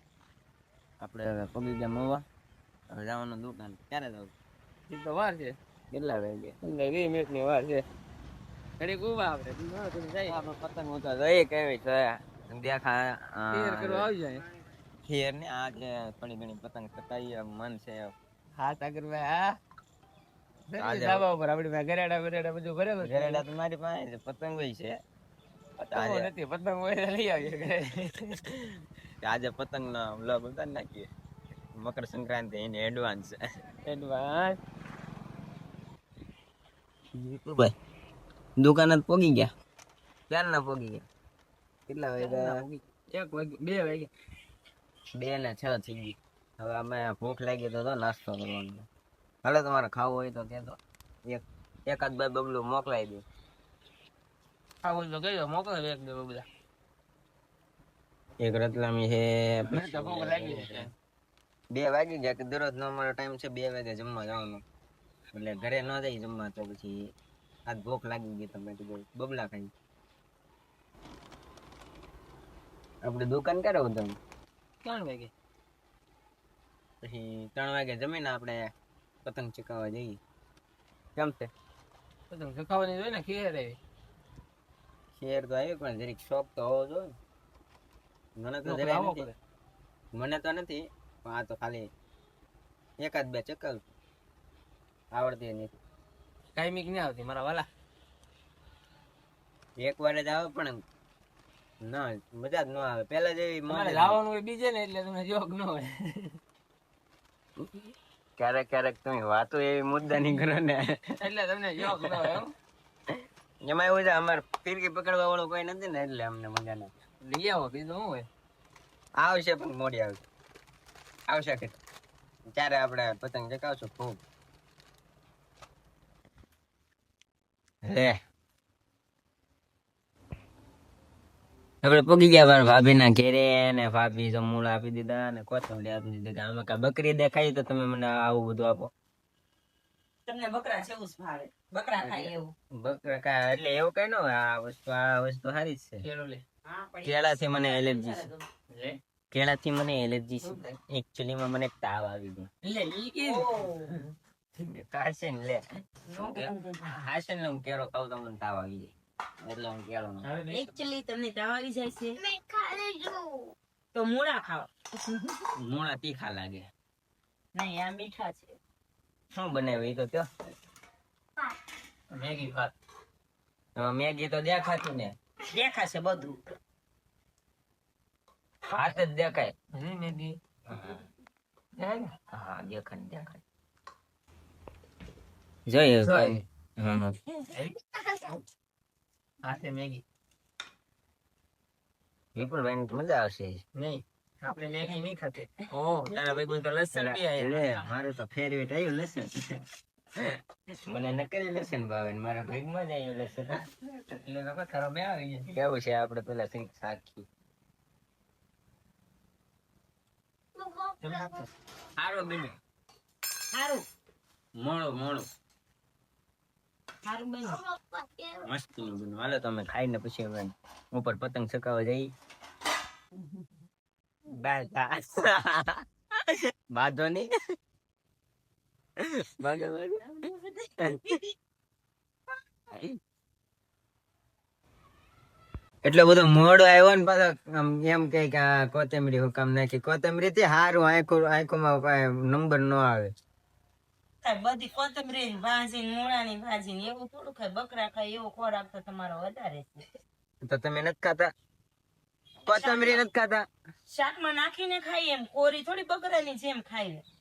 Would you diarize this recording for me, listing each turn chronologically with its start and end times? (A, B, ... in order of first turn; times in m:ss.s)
0:01.0-0:02.2 A
0:02.9-0:04.3 A
0:04.9-0:05.5 B
0:05.9-0:06.6 A
0:06.6-0:07.8 B
0:08.8-0:10.4 B
0:10.2-0:14.1 A
0:13.5-0:14.4 B
0:15.1-0:18.1 A
0:18.6-0:19.5 B
0:20.7-0:23.4 B
0:20.8-0:21.2 A
0:23.0-0:24.9 A
0:25.8-0:28.6 B
0:25.9-0:26.3 A
0:29.2-0:31.1 A
0:31.7-0:33.4 A
0:33.8-0:34.6 B
0:37.1-0:37.8 A
0:38.6-0:39.5 A
0:40.3-0:41.1 A
0:41.9-0:42.6 A
0:42.2-0:44.1 B
0:45.1-0:48.9 A
0:49.4-0:53.2 A
0:54.8-0:56.4 B
0:58.4-1:00.9 A
0:59.7-1:00.9 B
1:01.7-1:04.6 A
1:05.3-1:07.0 A
1:07.7-1:09.7 A
1:13.0-1:14.2 A
1:14.8-1:15.3 B
1:17.0-1:18.6 A
1:19.2-1:20.2 A
1:21.1-1:21.5 A
1:22.3-1:23.8 B
1:25.1-1:27.1 A
1:28.4-1:29.3 A
1:28.6-1:29.3 B
1:30.1-1:31.9 A
1:33.0-1:33.8 A
1:35.1-1:35.7 A
1:36.6-1:37.7 B
1:39.8-1:40.8 A
1:41.8-1:44.2 A
1:43.7-1:46.4 B
1:47.6-1:47.9 A
1:48.4-1:51.1 A
1:51.2-1:52.5 B
1:51.9-1:52.3 A
1:53.6-1:56.9 A
1:57.2-1:58.2 B
1:59.2-2:00.2 A
2:01.3-2:01.8 A
2:02.4-2:04.2 A
2:07.8-2:08.2 A
2:11.8-2:18.9 A
2:20.2-2:22.5 C
2:22.0-2:26.0 A
2:26.0-2:26.4 B
2:26.6-2:28.4 C
2:27.0-2:28.3 A
2:28.7-2:29.0 B
2:29.3-2:32.5 A
2:32.6-2:34.0 B
2:33.3-2:33.9 C
2:34.6-2:35.6 A
2:36.1-2:36.9 C
2:36.2-2:40.3 A
2:40.2-2:40.8 B
2:40.5-2:45.5 C
2:45.6-2:46.7 A
2:47.5-2:48.6 C
2:49.3-2:50.3 A
2:52.1-2:52.7 B
2:53.8-2:55.2 A
2:55.5-2:56.4 C
2:58.7-2:59.5 A
2:59.7-3:00.4 B
3:00.7-3:00.9 A
3:01.8-3:02.1 B
3:02.3-3:03.4 A
3:05.6-3:07.2 A
3:06.0-3:06.4 B
3:09.4-3:10.0 B
3:12.3-3:13.6 A
3:13.8-3:17.9 B
3:16.9-3:19.6 A
3:20.8-3:27.2 A
3:30.6-3:31.2 C
3:31.0-3:31.3 A
3:32.0-3:32.6 A
3:33.5-3:33.8 C
3:34.6-3:35.3 A
3:37.0-3:38.5 C
3:38.4-3:42.1 A
3:44.3-3:47.3 A
3:49.0-3:50.2 A
3:50.8-3:51.2 A
3:55.8-4:03.1 A
4:04.2-4:09.9 C
4:10.4-4:11.3 A
4:12.4-4:13.0 C
4:12.4-4:13.4 A
4:13.8-4:17.0 C